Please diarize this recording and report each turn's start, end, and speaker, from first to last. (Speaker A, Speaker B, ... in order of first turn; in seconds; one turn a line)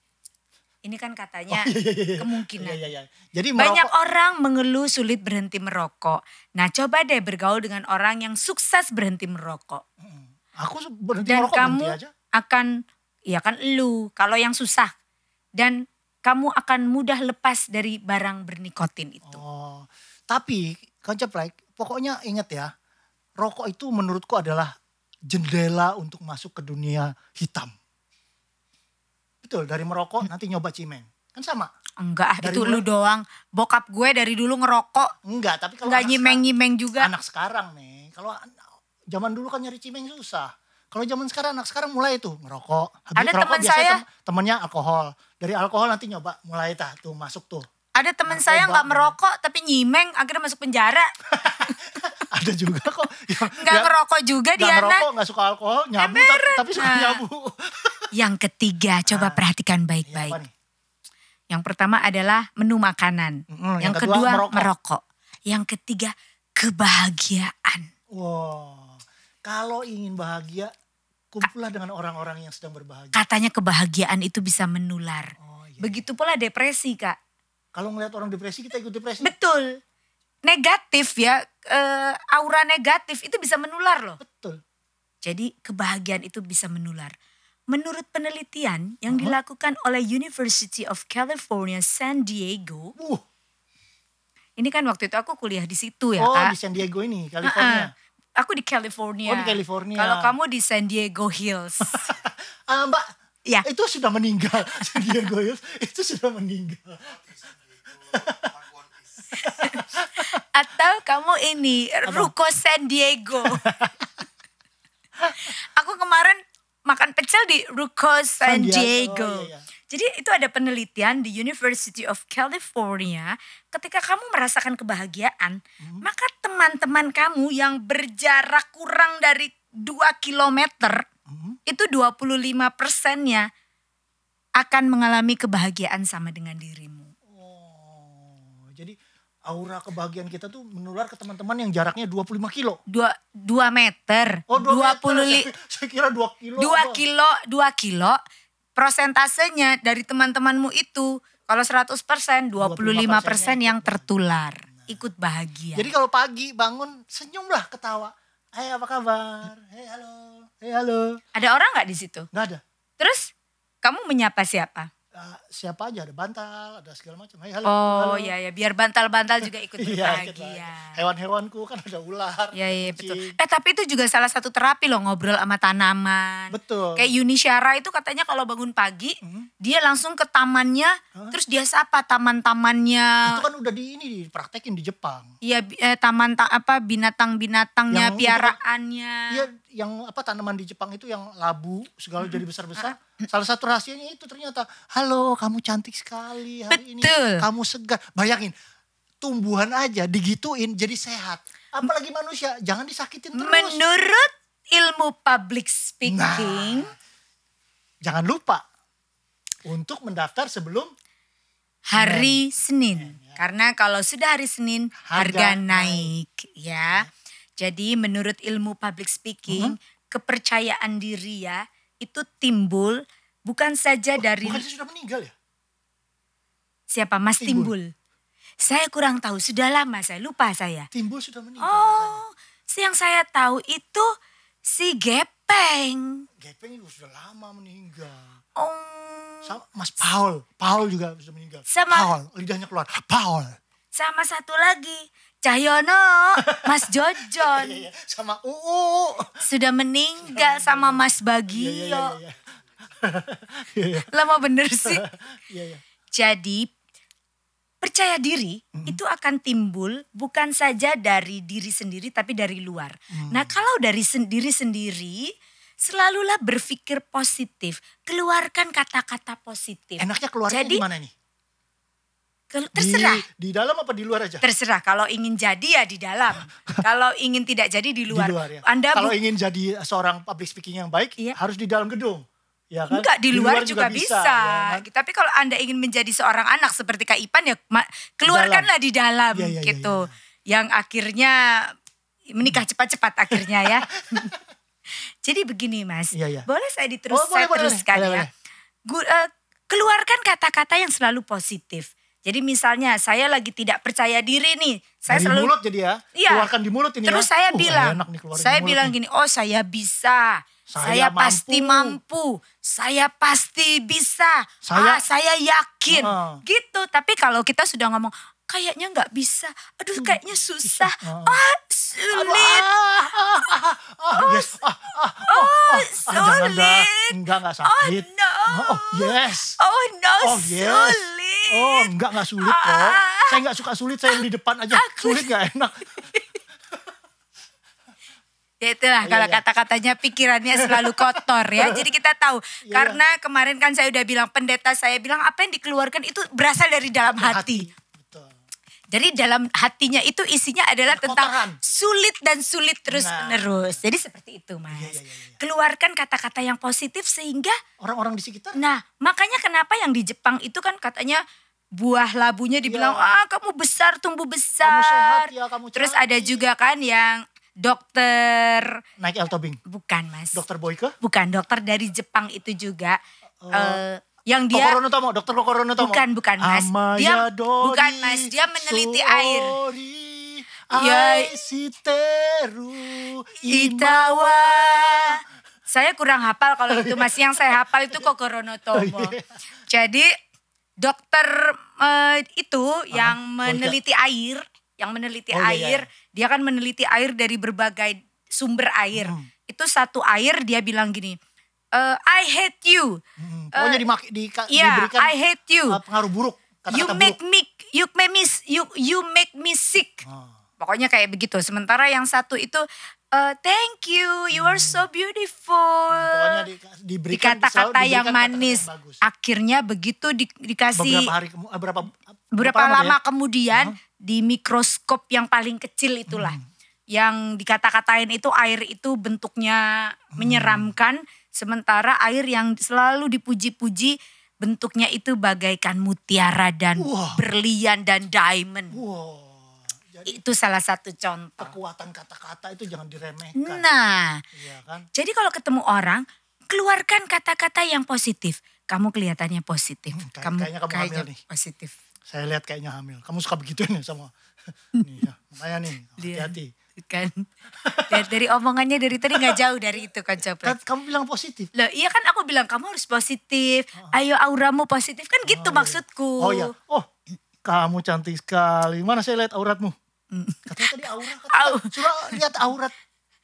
Speaker A: 0.8-2.8
Speaker B: 1.5-3.9
Speaker A: 3.6-9.8
Speaker B: 10.0-12.1
Speaker A: 11.2-12.7
Speaker A: 13.3-14.9
Speaker A: 15.6-19.4
Speaker B: 19.2-22.7
Speaker B: 23.4-24.7
Speaker B: 25.3-27.7
Speaker B: 29.4-31.7
Speaker A: 32.0-35.1
Speaker B: 32.4-32.8
Speaker B: 35.2-36.4
Speaker A: 35.8-37.1
Speaker B: 37.0-38.5
Speaker B: 39.1-47.7
Speaker A: 43.1-44.0
Speaker A: 47.9-51.1
Speaker B: 48.3-49.1
Speaker B: 51.3-53.9
Speaker A: 53.6-55.0
Speaker B: 54.6-58.1
Speaker A: 56.0-57.2
Speaker A: 58.1-60.4
Speaker B: 59.1-59.4
Speaker B: 60.1-60.5
Speaker A: 61.5-67.9
Speaker B: 63.5-64.7
Speaker B: 68.1-70.7
Speaker B: 71.3-73.2
Speaker A: 73.1-77.2
Speaker B: 75.4-76.0
Speaker B: 77.7-79.3
Speaker A: 79.2-79.8
Speaker A: 80.4-84.2
Speaker B: 84.2-84.6
Speaker A: 85.2-87.1
Speaker A: 87.7-92.9
Speaker B: 89.1-89.3
Speaker B: 93.0-93.2
Speaker A: 94.6-96.5
Speaker B: 96.2-97.9
Speaker A: 97.4-102.1
Speaker B: 99.2-100.3
Speaker B: 101.9-103.1
Speaker B: 103.6-108.8
Speaker B: 109.3-110.4
Speaker A: 109.3-113.6
Speaker B: 112.0-112.3
Speaker B: 113.5-114.1
Speaker A: 115.4-131.0
Speaker B: 118.4-119.6
Speaker B: 125.8-126.0
Speaker B: 131.3-131.6
Speaker A: 131.7-133.5
Speaker A: 134.6-137.1
Speaker B: 137.3-142.8
Speaker A: 142.9-145.5
Speaker B: 144.5-147.0
Speaker A: 146.6-148.2
Speaker A: 148.8-155.9
Speaker B: 152.6-154.1
Speaker B: 155.7-161.2
Speaker A: 161.3-162.3
Speaker B: 162.3-162.6
Speaker A: 163.0-163.3
Speaker A: 163.8-164.9
Speaker B: 165.1-168.3
Speaker A: 167.6-171.0
Speaker B: 169.8-173.4
Speaker A: 172.5-183.4
Speaker B: 176.5-177.1
Speaker B: 179.2-179.5
Speaker B: 183.2-185.3
Speaker A: 185.4-189.4
Speaker B: 187.9-188.6
Speaker B: 189.3-198.5
Speaker A: 192.2-193.2
Speaker A: 196.7-197.4
Speaker B: 199.2-203.8
Speaker A: 203.3-206.9
Speaker B: 206.1-206.9
Speaker B: 208.0-208.6
Speaker B: 209.7-210.9
Speaker A: 211.9-217.1
Speaker B: 211.9-212.4
Speaker B: 212.9-213.4
Speaker B: 215.0-216.1
Speaker A: 217.6-224.6
Speaker B: 219.5-219.8
Speaker B: 224.2-225.3
Speaker A: 226.9-227.9
Speaker B: 227.4-227.7
Speaker A: 228.6-230.9
Speaker B: 230.9-232.2
Speaker A: 231.6-234.1
Speaker A: 234.6-236.2
Speaker B: 236.4-238.3
Speaker A: 238.6-239.6
Speaker B: 239.4-243.6
Speaker A: 241.7-242.1
Speaker A: 243.9-247.8
Speaker B: 246.4-249.4
Speaker A: 249.4-252.2
Speaker B: 250.2-252.4
Speaker B: 252.9-254.1
Speaker A: 254.1-255.0
Speaker B: 254.8-255.8
Speaker A: 256.1-256.7
Speaker A: 257.8-270.8
Speaker B: 263.1-263.6
Speaker B: 270.0-271.1
Speaker A: 272.5-273.2
Speaker B: 272.8-274.4
Speaker A: 274.4-279.1
Speaker B: 278.1-284.8
Speaker A: 282.9-291.7
Speaker B: 288.2-288.7
Speaker B: 289.3-290.1
Speaker A: 292.3-294.3
Speaker B: 293.3-294.3
Speaker A: 295.2-298.3
Speaker B: 296.1-296.5
Speaker B: 297.1-298.3
Speaker A: 298.9-305.5
Speaker B: 305.1-308.9
Speaker A: 306.1-306.5
Speaker A: 307.0-322.6
Speaker B: 310.7-312.0
Speaker B: 314.6-315.0
Speaker B: 315.9-316.4
Speaker B: 320.0-321.4
Speaker B: 322.1-329.6
Speaker A: 324.1-324.6
Speaker A: 325.3-333.4
Speaker B: 330.2-336.0
Speaker A: 334.7-335.3
Speaker A: 338.6-347.7
Speaker B: 339.0-339.4
Speaker B: 340.6-341.8
Speaker B: 342.6-343.0
Speaker B: 347.1-348.3
Speaker A: 348.9-357.6
Speaker B: 350.9-351.6
Speaker B: 352.9-353.8
Speaker B: 354.7-355.4
Speaker B: 357.8-358.6
Speaker A: 358.5-361.2
Speaker A: 361.7-368.8
Speaker B: 362.6-363.2
Speaker B: 364.6-366.4
Speaker B: 369.0-369.6
Speaker A: 369.6-370.4
Speaker B: 370.3-370.9
Speaker A: 371.0-373.0
Speaker B: 373.4-373.8
Speaker A: 373.5-374.8
Speaker B: 374.5-385.2
Speaker A: 375.8-379.6
Speaker A: 380.7-381.4
Speaker A: 383.4-389.1
Speaker B: 386.7-388.0
Speaker B: 388.7-389.3
Speaker A: 389.7-390.1
Speaker A: 390.8-401.2
Speaker B: 392.9-393.8
Speaker B: 395.3-395.8
Speaker B: 398.9-399.3
Speaker A: 401.7-403.0
Speaker B: 403.2-405.1
Speaker A: 403.5-403.8
Speaker A: 404.5-405.8
Speaker B: 405.7-407.2
Speaker A: 406.7-410.0
Speaker B: 410.0-410.4
Speaker A: 410.6-416.4
Speaker B: 414.3-414.8
Speaker B: 415.9-419.0
Speaker A: 417.1-421.1
Speaker B: 420.8-422.9
Speaker A: 422.4-426.4
Speaker B: 426.1-426.4
Speaker A: 426.9-438.8
Speaker B: 430.1-430.7
Speaker B: 436.8-437.2
Speaker B: 438.7-440.2
Speaker A: 440.1-441.5
Speaker B: 441.4-443.6
Speaker A: 443.4-444.2
Speaker B: 444.3-444.9
Speaker A: 444.9-451.7
Speaker B: 449.9-451.2
Speaker B: 452.1-454.1
Speaker A: 454.8-455.0
Speaker B: 454.8-456.5
Speaker A: 456.0-457.2
Speaker B: 457.6-458.1
Speaker A: 457.9-460.6
Speaker B: 459.1-459.4
Speaker B: 460.4-461.5
Speaker A: 461.5-466.5
Speaker B: 465.3-466.9
Speaker B: 467.4-469.7
Speaker A: 470.1-472.2
Speaker B: 470.5-472.7